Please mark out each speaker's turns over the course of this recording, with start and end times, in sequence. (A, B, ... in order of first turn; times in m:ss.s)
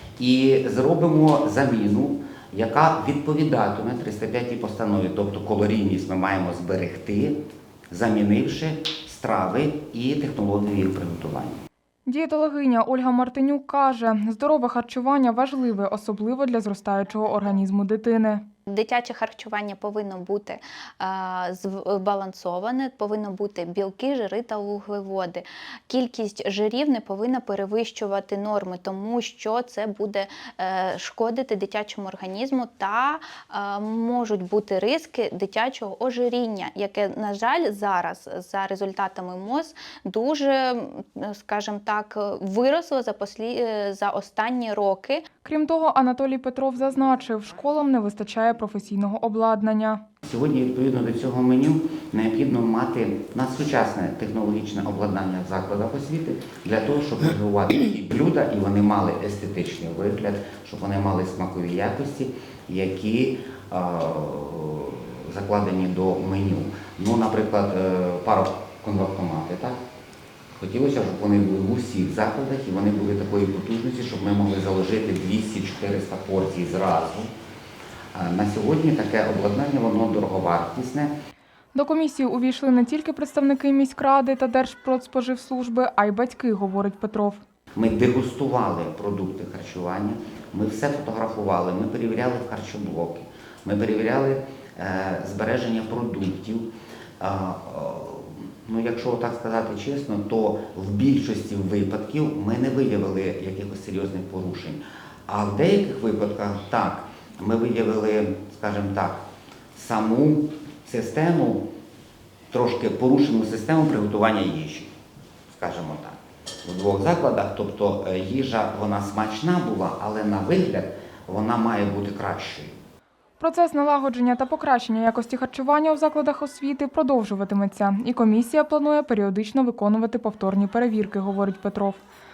0:00.2-0:07.4 A
0:07.9-0:11.6 A
0:12.0-0:18.4 B
0:18.7-0:45.2 C
0:45.4-0:50.0 B
0:50.2-1:09.8 A
1:10.6-1:17.3 A
1:18.1-1:21.1 A
1:21.7-1:27.4 B
1:27.8-1:36.7 A
1:37.2-1:49.2 A
1:49.7-1:51.6 A
1:52.5-1:54.9 A
1:55.5-2:02.8 A
2:03.4-2:12.0 B